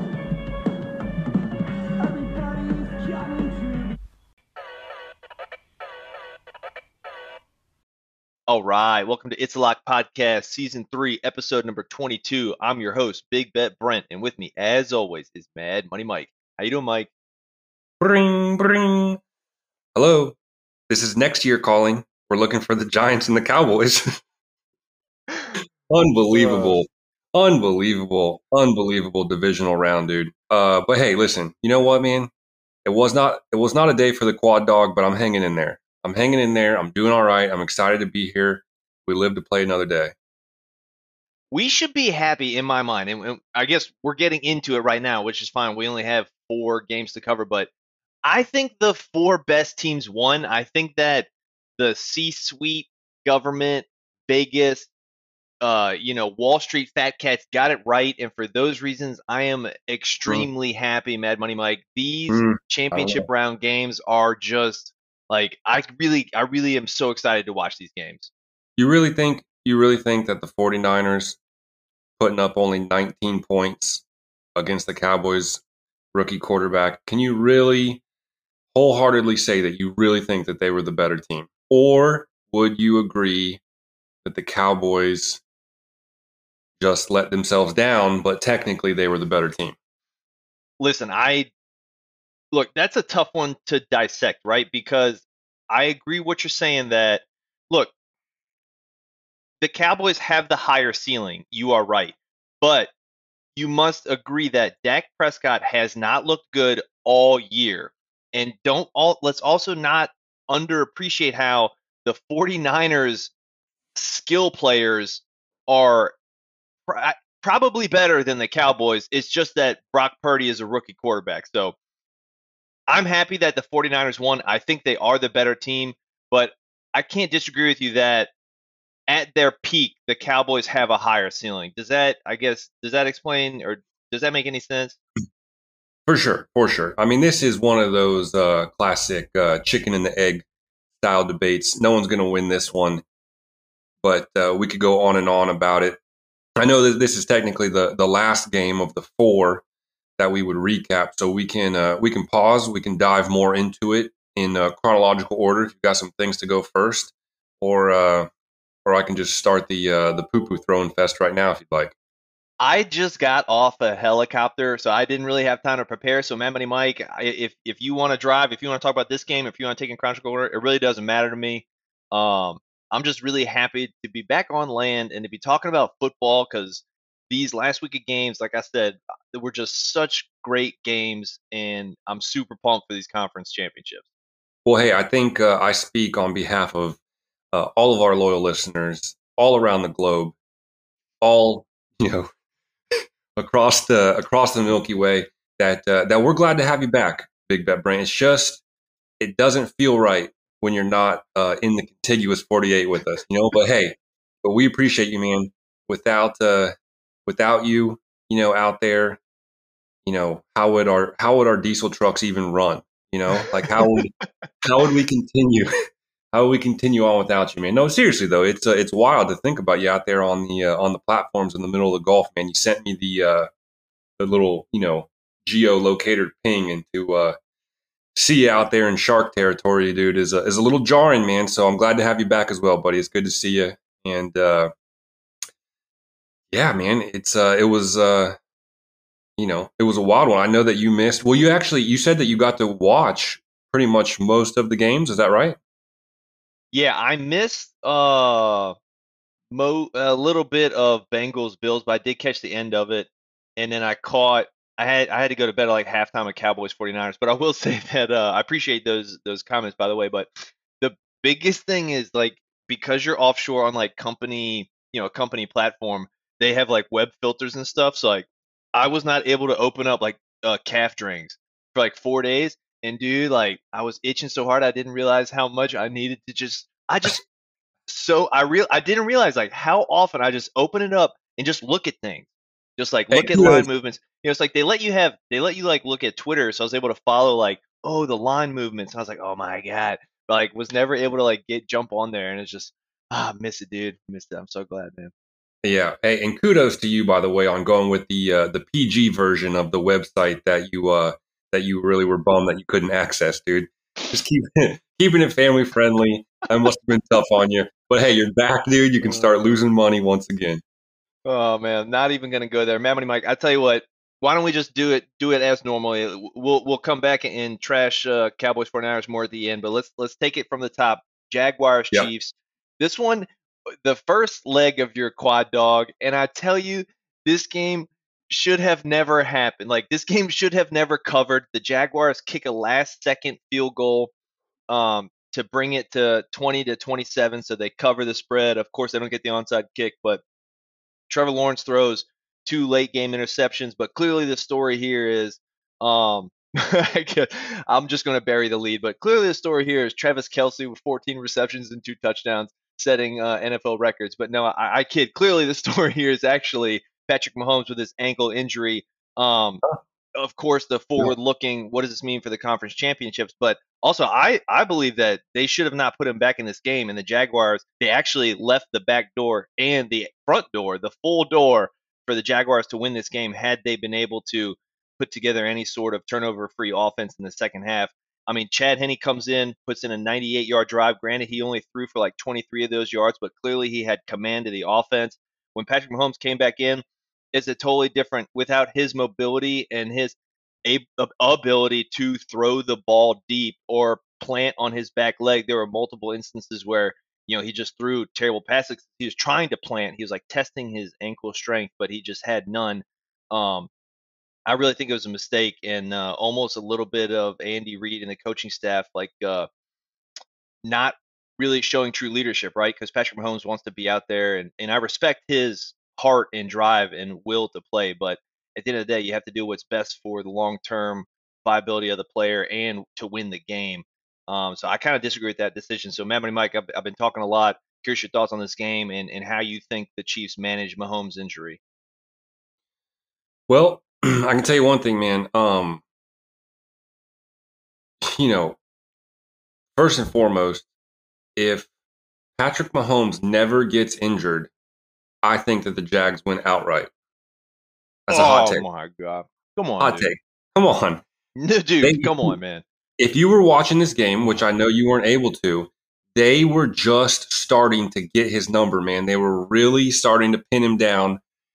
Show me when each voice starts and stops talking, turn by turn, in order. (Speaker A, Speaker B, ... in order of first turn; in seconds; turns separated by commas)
Speaker A: 8.5-17.1, Speaker B: 18.0-19.2, Speaker B: 19.9-20.4, Speaker B: 20.9-24.2, Speaker B: 25.9-32.3, Speaker A: 26.3-26.8, Speaker B: 32.8-40.1, Speaker A: 41.5-47.7, Speaker A: 48.2-54.9, Speaker A: 55.6-68.3, Speaker B: 62.3-63.3, Speaker B: 68.8-71.4, Speaker B: 72.2-74.0, Speaker B: 74.5-75.6, Speaker B: 76.1-78.0, Speaker B: 78.7-83.6, Speaker B: 84.2-85.4, Speaker B: 86.8-89.8, Speaker A: 90.8-91.5, Speaker A: 92.5-97.9, Speaker A: 99.6-102.9, Speaker A: 103.5-113.3, Speaker A: 113.9-116.2, Speaker A: 116.9-121.7, Speaker A: 122.9-128.3, Speaker A: 129.1-135.0, Speaker B: 136.1-140.4, Speaker B: 141.0-143.0, Speaker B: 144.0-146.0, Speaker B: 146.6-149.6, Speaker B: 150.2-158.3, Speaker B: 158.8-161.9, Speaker A: 162.6-184.0, Speaker B: 184.6-187.0, Speaker B: 187.5-190.3, Speaker B: 191.2-192.3, Speaker B: 192.9-198.6, Speaker B: 199.2-206.7, Speaker B: 207.2-209.2, Speaker B: 210.0-215.7, Speaker A: 213.4-213.9, Speaker B: 216.3-223.5, Speaker B: 224.2-227.4, Speaker B: 228.1-234.7, Speaker B: 236.5-238.4, Speaker B: 239.4-245.6, Speaker A: 246.7-248.7, Speaker A: 249.5-277.2, Speaker A: 277.9-295.1, Speaker B: 283.1-283.7, Speaker B: 295.6-310.6, Speaker A: 309.0-309.3, Speaker A: 311.2-323.3, Speaker A: 323.8-334.1, Speaker A: 334.7-340.2, Speaker A: 341.1-359.6, Speaker A: 360.1-403.7, Speaker A: 404.5-409.5, Speaker A: 410.6-431.6, Speaker B: 433.5-435.8, Speaker B: 438.0-438.6, Speaker B: 439.8-440.6, Speaker B: 441.4-441.7, Speaker B: 442.4-444.5, Speaker B: 445.2-446.9, Speaker B: 448.1-448.6, Speaker A: 448.1-450.1, Speaker B: 449.8-451.0, Speaker A: 451.4-452.6, Speaker B: 451.8-452.3, Speaker B: 453.0-461.2